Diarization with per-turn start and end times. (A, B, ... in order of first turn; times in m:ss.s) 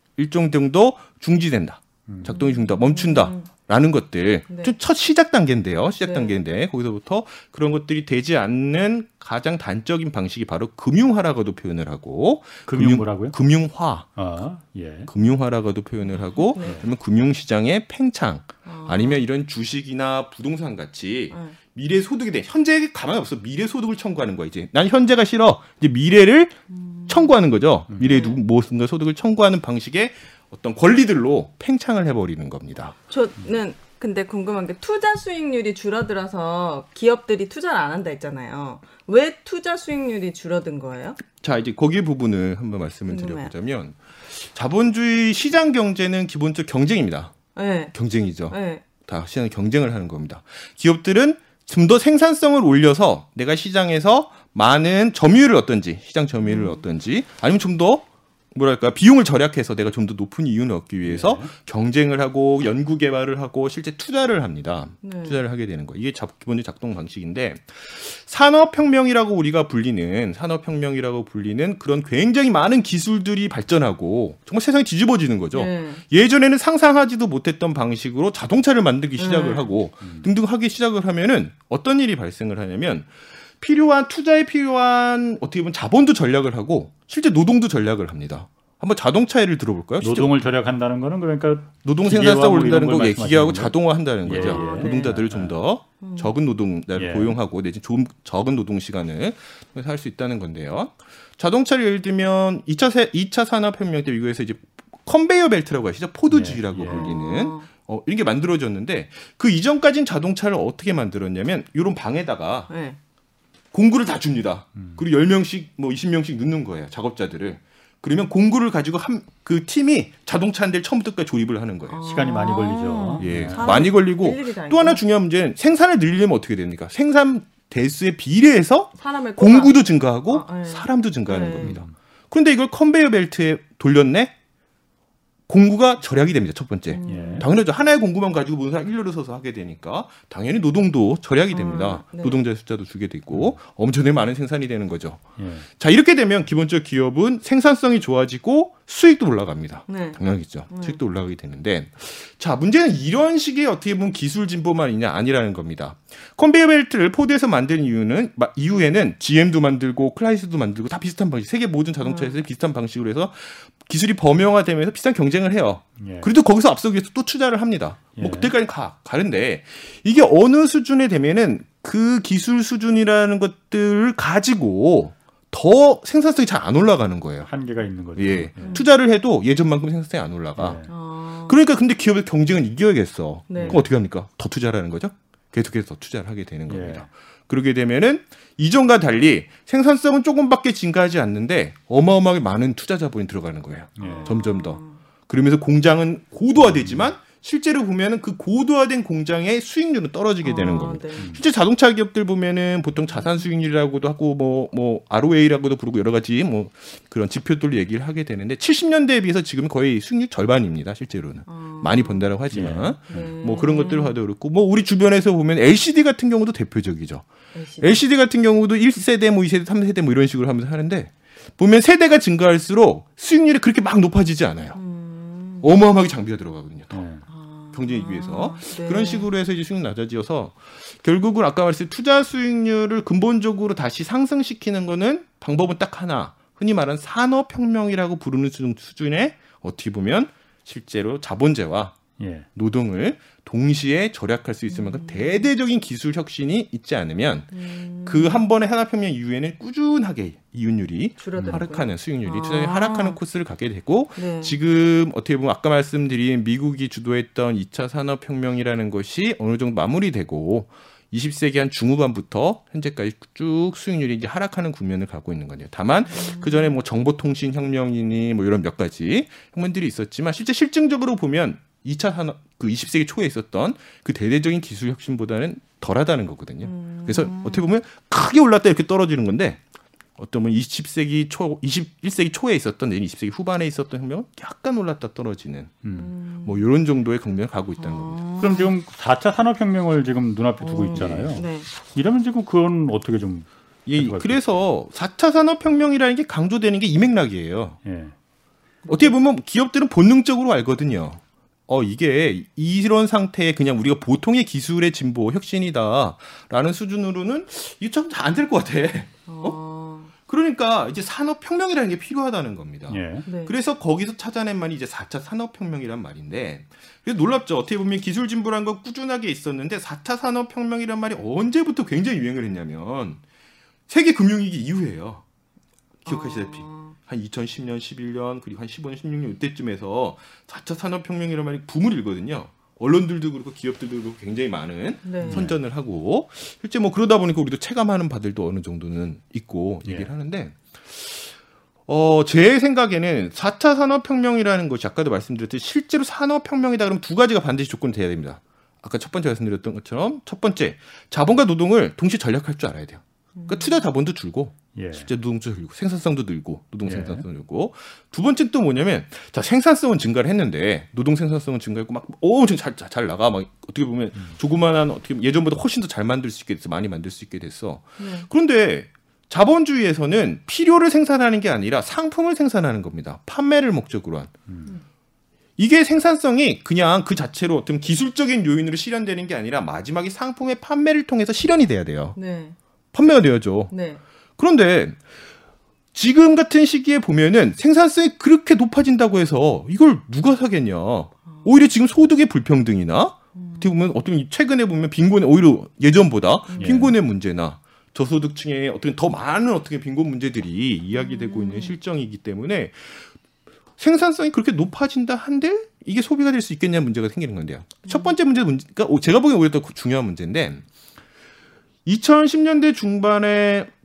0:00.2-0:14.1 A
0:02.1-0:02.4 B
0:02.3-0:03.5 C
0:06.0-0:06.4 C
0:12.7-0:13.4 B
0:14.2-0:15.1 B
0:15.1-0:33.0 A
0:16.4-0:16.8 C
0:18.6-0:19.2 C
0:21.3-0:21.6 C
0:26.7-0:27.3 C
0:28.0-0:28.4 C
0:33.1-0:41.2 C
0:41.4-0:47.3 A
0:43.1-0:43.5 C
0:47.5-0:47.9 C
0:47.9-1:30.3 A
0:48.5-0:48.8 C
0:56.4-0:56.8 C
1:01.0-1:01.5 B
1:05.0-1:05.4 C
1:15.5-1:16.0 C
1:19.2-1:19.7 C
1:20.0-1:20.3 B
1:30.0-1:35.5 B
1:31.8-1:52.7 A
1:34.3-1:35.2 C
1:36.0-1:36.3 C
1:36.9-1:37.4 B
1:46.3-1:47.1 B
1:46.8-1:47.7 C
1:52.7-1:53.0 C
1:53.7-2:02.0 A
2:01.9-2:05.0 C
2:02.0-2:03.8 B
2:03.2-2:14.3 A
2:09.0-2:11.7 C
2:11.6-2:11.9 B
2:15.5-2:25.2 A
2:16.9-2:17.5 C
2:17.1-2:17.5 B
2:21.5-2:22.4 C
2:25.4-2:25.7 B
2:25.8-2:57.5 A
2:29.9-2:31.0 C
2:42.0-2:42.4 C
2:46.0-2:46.3 B
2:48.2-2:48.5 B
2:57.5-2:58.8 B
2:58.2-3:00.8 A
2:58.6-2:58.9 C
3:00.6-3:00.9 B
3:00.9-3:01.6 C
3:01.4-3:37.3 A
3:03.5-3:03.8 C
3:03.5-3:03.8 B
3:06.7-3:07.1 B
3:14.0-3:14.3 B
3:14.0-3:15.0 C
3:16.7-3:17.0 B
3:20.4-3:21.3 C
3:31.5-3:32.3 C
3:32.5-3:33.3 B
3:33.1-3:34.2 C
3:37.5-3:38.0 C
3:37.8-3:44.8 A
3:44.7-3:45.6 C
3:45.6-3:47.0 A
3:46.9-3:47.2 B
3:47.3-3:49.3 C
3:47.7-4:02.0 A
4:02.2-4:02.4 B
4:02.5-4:07.5 A
4:04.7-4:05.5 C
4:07.5-4:08.4 C
4:08.0-4:39.6 A
4:11.2-4:13.2 C
4:11.4-4:11.6 B
4:14.2-4:14.6 C
4:26.1-4:26.7 C
4:36.6-4:37.6 C
4:40.2-4:45.8 A
4:45.8-4:46.1 B
4:45.9-4:46.6 C
4:46.4-4:48.2 A
4:47.8-4:48.7 C
4:48.4-4:54.6 B
4:50.6-4:51.7 C
4:50.9-4:51.4 A
4:53.9-4:57.8 A
4:57.8-4:58.1 B
4:58.8-4:59.1 C
4:58.9-5:09.6 A
5:09.3-5:10.1 C
5:10.2-5:23.2 A
5:12.9-5:13.2 B
5:13.2-5:13.5 C
5:23.9-5:25.2 A
5:26.0-5:41.4 A
5:26.1-5:26.9 C
5:35.0-5:35.5 C
5:35.2-5:35.6 B
5:39.8-5:40.1 B
5:41.9-6:14.3 A
5:53.4-5:53.8 C
5:54.7-5:55.1 B
5:56.8-5:57.2 B
6:08.0-6:08.3 C
6:15.6-6:22.2 A
6:22.2-6:22.6 C
6:22.9-6:23.7 A
6:23.7-6:24.0 C
6:24.4-6:25.0 A
6:25.9-6:43.1 A
6:33.3-6:33.8 C
6:36.5-6:36.9 C
6:36.6-6:36.9 B
6:40.9-6:41.8 C
6:43.8-6:50.6 A
6:51.8-6:53.7 A